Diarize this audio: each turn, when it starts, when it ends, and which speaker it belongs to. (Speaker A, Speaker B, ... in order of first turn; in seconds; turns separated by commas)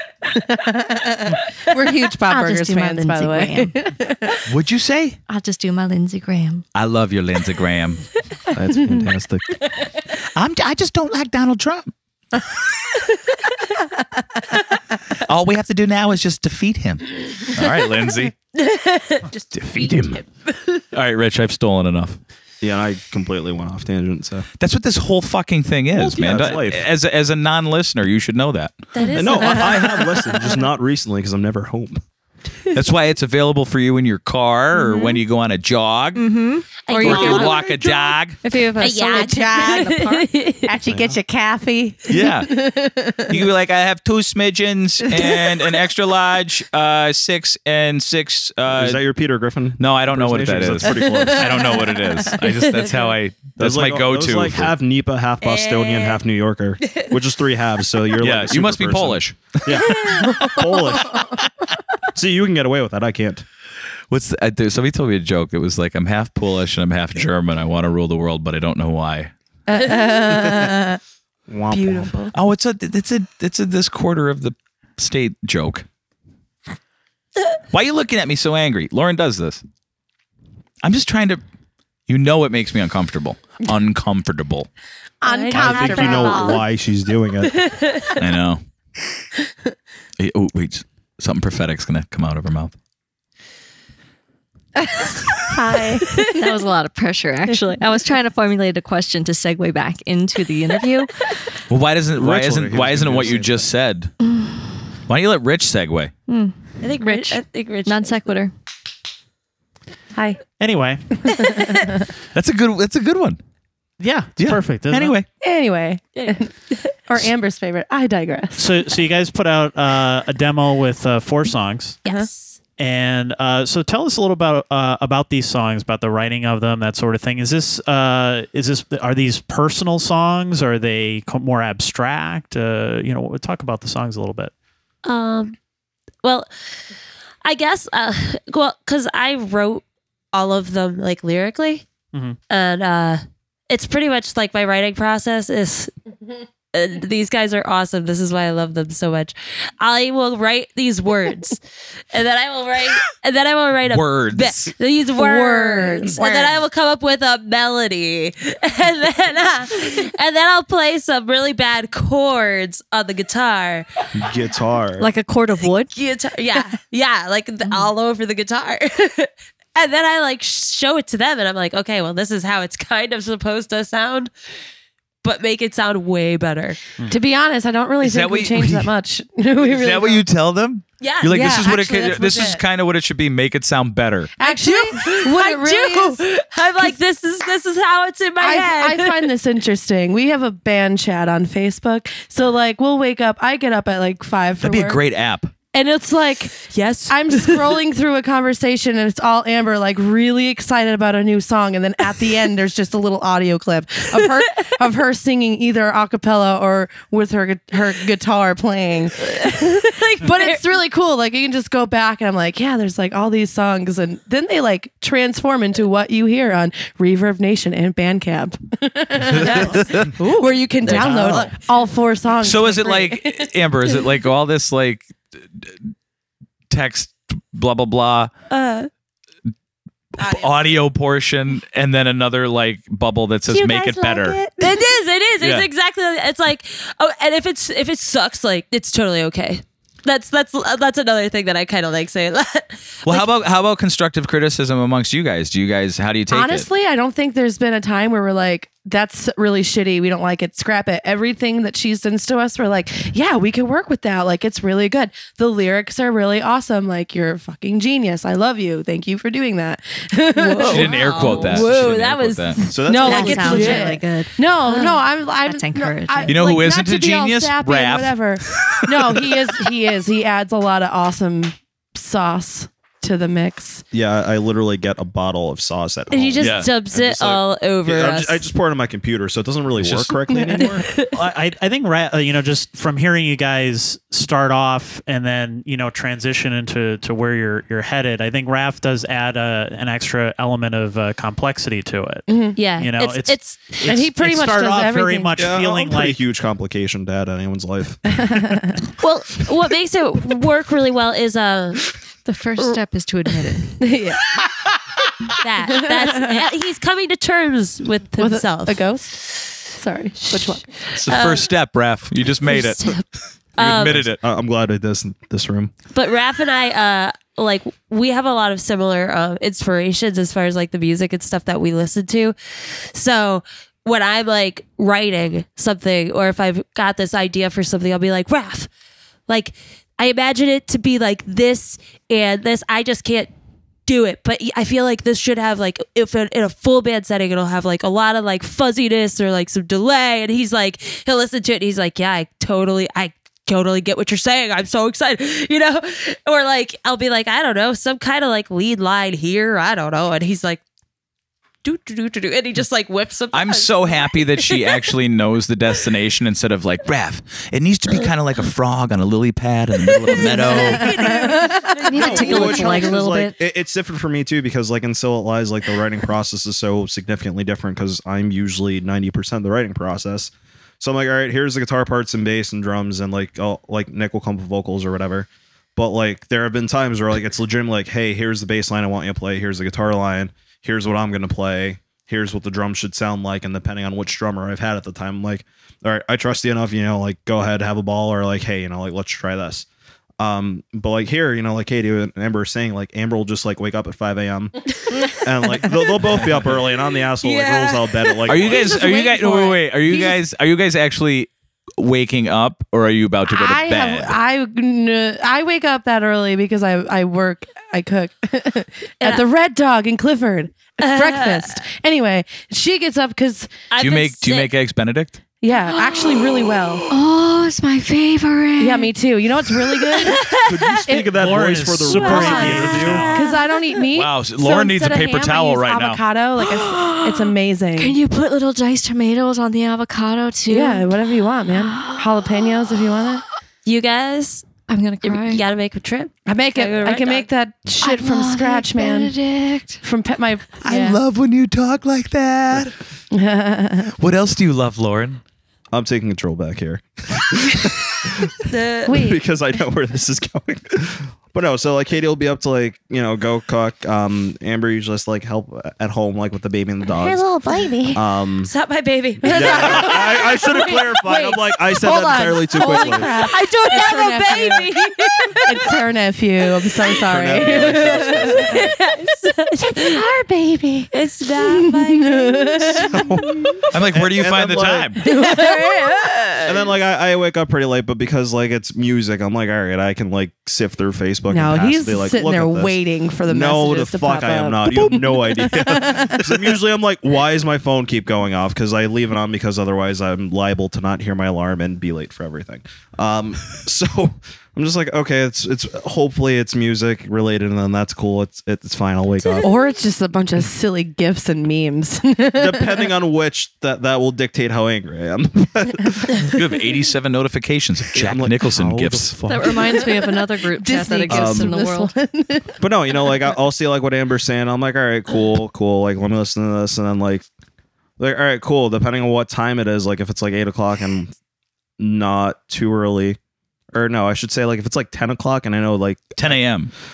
Speaker A: 0.3-4.4, Speaker B: 2.3-3.8, Speaker C: 4.5-5.2, Speaker B: 5.3-6.6, Speaker C: 6.8-8.0, Speaker D: 8.5-9.7, Speaker C: 10.3-11.9, Speaker C: 15.1-18.3, Speaker E: 18.5-20.8, Speaker C: 19.5-20.2, Speaker C: 20.9-22.2, Speaker D: 22.6-24.5, Speaker C: 24.6-28.9, Speaker D: 26.0-26.8, Speaker E: 28.9-30.3, Speaker D: 29.1-32.0, Speaker C: 32.7-36.2, Speaker B: 36.2-37.7, Speaker E: 36.9-37.8, Speaker C: 36.9-38.4, Speaker B: 38.4-40.1, Speaker E: 38.8-40.7, Speaker A: 38.9-43.4, Speaker D: 40.9-41.2, Speaker C: 42.1-49.0, Speaker A: 45.2-45.5, Speaker D: 48.7-51.9, Speaker C: 49.8-54.7, Speaker E: 52.6-52.9, Speaker D: 53.6-61.3, Speaker E: 55.4-56.2, Speaker E: 56.8-57.1, Speaker C: 58.2-60.5, Speaker E: 59.8-60.6, Speaker D: 62.1-63.5, Speaker C: 64.1-69.3, Speaker A: 69.7-71.0, Speaker E: 69.8-70.4, Speaker D: 71.5-72.2, Speaker C: 72.3-75.8, Speaker C: 77.7-79.6, Speaker C: 80.8-81.4, Speaker C: 82.1-84.7, Speaker A: 85.2-86.6, Speaker E: 85.3-86.6, Speaker D: 85.5-87.7, Speaker E: 87.5-88.1, Speaker C: 88.2-88.6, Speaker C: 90.2-92.7, Speaker A: 95.5-96.3, Speaker E: 96.0-96.3, Speaker B: 96.3-101.1, Speaker C: 101.7-104.1, Speaker D: 102.2-103.7, Speaker C: 105.1-106.1, Speaker B: 106.3-106.5, Speaker E: 106.8-108.2, Speaker A: 107.0-107.4, Speaker B: 107.9-108.5, Speaker A: 110.2-110.4, Speaker F: 110.6-111.0, Speaker A: 111.3-111.9, Speaker C: 112.3-113.4, Speaker F: 114.0-115.2, Speaker C: 114.4-115.3, Speaker A: 115.4-116.5, Speaker E: 116.2-116.9, Speaker A: 117.1-118.7, Speaker F: 118.6-122.0, Speaker E: 122.0-122.6, Speaker F: 122.8-134.5, Speaker E: 135.1-135.6, Speaker E: 136.2-136.5, Speaker E: 137.4-141.8, Speaker F: 142.1-142.4, Speaker E: 142.5-145.9, Speaker E: 146.7-151.6, Speaker E: 152.1-163.9, Speaker C: 153.9-154.7, Speaker A: 155.2-156.6, Speaker D: 164.2-165.1, Speaker B: 165.0-165.9, Speaker E: 165.9-174.3, Speaker E: 175.2-176.8, Speaker A: 177.1-180.2, Speaker C: 178.0-178.9, Speaker C: 179.6-184.3, Speaker E: 181.0-182.6, Speaker A: 181.3-182.6, Speaker A: 184.4-186.2, Speaker E: 184.4-189.3, Speaker A: 188.4-195.0, Speaker C: 194.6-195.5, Speaker A: 195.7-223.4, Speaker E: 196.7-197.7, Speaker E: 209.3-210.6, Speaker C: 219.3-220.1, Speaker E: 220.2-221.3, Speaker D: 220.8-221.5, Speaker C: 220.9-221.4, Speaker C: 222.4-225.8, Speaker C: 226.7-228.3, Speaker E: 228.5-228.9, Speaker C: 230.2-234.5, Speaker E: 230.2-230.6, Speaker E: 233.5-243.3, Speaker C: 235.4-235.7, Speaker C: 243.1-246.7, Speaker A: 246.3-261.6, Speaker E: 260.4-263.9, Speaker C: 260.6-262.7, Speaker D: 262.7-263.7, Speaker A: 262.8-273.8, Speaker B: 263.0-266.4, Speaker C: 266.3-269.4, Speaker D: 273.9-280.9, Speaker E: 276.1-278.4, Speaker C: 276.4-276.7, Speaker C: 279.8-280.2, Speaker A: 280.3-280.8, Speaker E: 280.7-281.1, Speaker F: 281.1-296.2, Speaker A: 292.3-292.6, Speaker E: 292.6-293.9, Speaker A: 293.9-295.4, Speaker D: 295.4-298.4, Speaker A: 298.1-298.8, Speaker E: 299.0-301.9, Speaker B: 302.2-303.8, Speaker A: 303.8-304.2, Speaker E: 305.4-309.6, Speaker A: 305.7-306.5, Speaker A: 308.2-310.7, Speaker E: 310.3-311.5, Speaker C: 310.9-313.1, Speaker E: 312.4-313.0, Speaker E: 313.6-314.0, Speaker C: 313.6-314.2, Speaker D: 313.6-315.7, Speaker E: 315.9-328.7, Speaker E: 329.3-333.3, Speaker E: 333.9-350.6, Speaker E: 351.6-354.8, Speaker C: 353.3-361.1, Speaker E: 360.0-362.6, Speaker A: 360.2-361.8, Speaker B: 360.9-363.4, Speaker D: 362.0-389.7, Speaker A: 362.3-362.6, Speaker D: 390.2-398.8, Speaker E: 394.9-395.2, Speaker E: 397.2-399.4, Speaker C: 398.3-404.2, Speaker A: 398.8-399.6, Speaker A: 403.3-413.7, Speaker E: 410.8-411.6, Speaker E: 413.7-414.5, Speaker C: 413.8-415.2, Speaker A: 415.4-416.9, Speaker B: 415.7-416.1, Speaker B: 416.9-418.9, Speaker A: 418.6-421.1, Speaker E: 420.0-420.9, Speaker D: 420.4-423.1, Speaker F: 421.1-423.1, Speaker E: 422.0-422.3, Speaker A: 422.1-428.0, Speaker E: 422.9-423.4, Speaker C: 423.9-426.0, Speaker B: 426.4-430.9, Speaker A: 430.5-433.2, Speaker B: 431.5-432.3, Speaker E: 433.6-434.5, Speaker B: 434.7-435.4, Speaker E: 435.0-437.3, Speaker A: 436.3-439.2, Speaker B: 437.8-439.8, Speaker A: 439.8-441.0, Speaker C: 440.6-442.8, Speaker A: 443.1-443.9, Speaker C: 444.0-445.2, Speaker D: 445.7-457.3, Speaker E: 448.5-449.0, Speaker A: 448.9-449.2, Speaker A: 456.9-458.0, Speaker D: 457.9-458.5, Speaker E: 458.4-460.5, Speaker D: 459.2-463.2, Speaker A: 459.3-468.7, Speaker E: 463.3-465.8, Speaker D: 467.0-468.7, Speaker E: 468.4-470.1, Speaker A: 469.6-473.6, Speaker E: 470.9-473.0, Speaker D: 472.8-475.0, Speaker C: 473.7-475.0, Speaker E: 475.0-476.6, Speaker A: 475.1-476.1, Speaker D: 476.5-499.5, Speaker A: 481.3-486.6, Speaker A: 499.4-502.9, Speaker D: 502.4-506.3, Speaker C: 506.3-509.1, Speaker D: 507.9-509.6, Speaker B: 509.3-511.9, Speaker A: 509.4-512.6, Speaker D: 511.1-511.5, Speaker D: 512.6-517.2, Speaker D: 518.0-521.1, Speaker D: 521.8-523.2, Speaker D: 523.7-526.4, Speaker C: 526.2-526.7